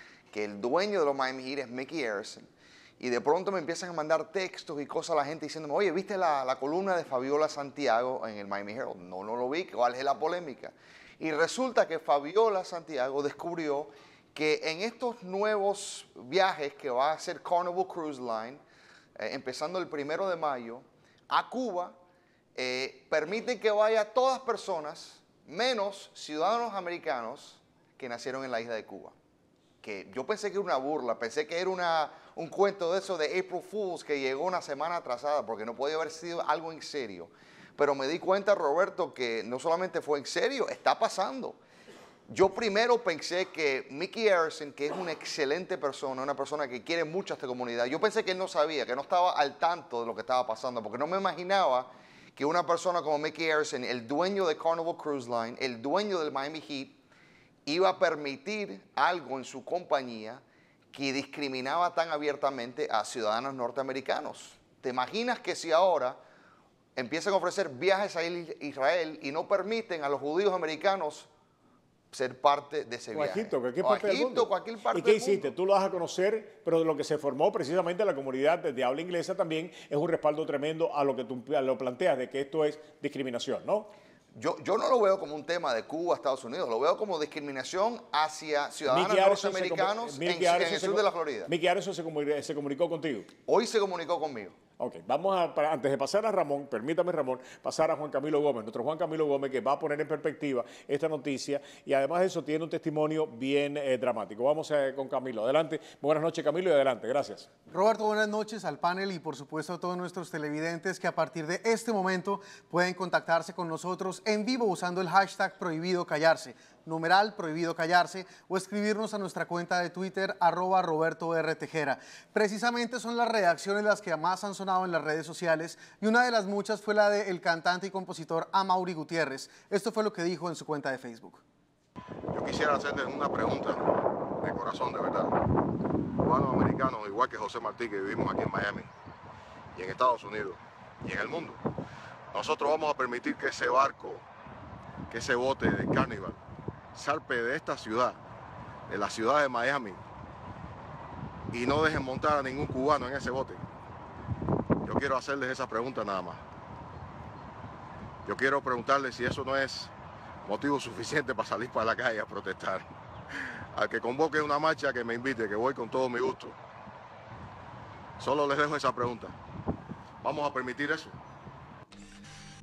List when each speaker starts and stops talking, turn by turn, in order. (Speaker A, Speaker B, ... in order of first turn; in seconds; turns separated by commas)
Speaker A: 0.3-2.4, Speaker A: 3.0-18.6, Speaker A: 19.2-22.0, Speaker A: 22.6-29.1, Speaker A: 29.8-41.6, Speaker A: 42.3-57.0, Speaker A: 57.7-60.4, Speaker A: 60.9-66.2, Speaker A: 67.0-71.3, Speaker A: 72.1-75.5, Speaker B: 73.1-83.9, Speaker A: 84.3-91.5, Speaker B: 88.9-93.3, Speaker A: 93.5-94.5, Speaker B: 94.8-107.5, Speaker C: 107.7-131.4, Speaker D: 132.3-133.8, Speaker D: 134.4-135.3, Speaker D: 136.2-138.9, Speaker D: 139.8-141.6, Speaker D: 142.3-144.2, Speaker D: 145.1-146.4, Speaker D: 146.9-148.2, Speaker D: 148.9-150.0, Speaker D: 151.5-153.6, Speaker D: 154.8-156.4, Speaker D: 158.2-159.9, Speaker D: 160.5-162.9, Speaker D: 163.7-166.6, Speaker D: 168.2-169.3, Speaker D: 170.2-171.1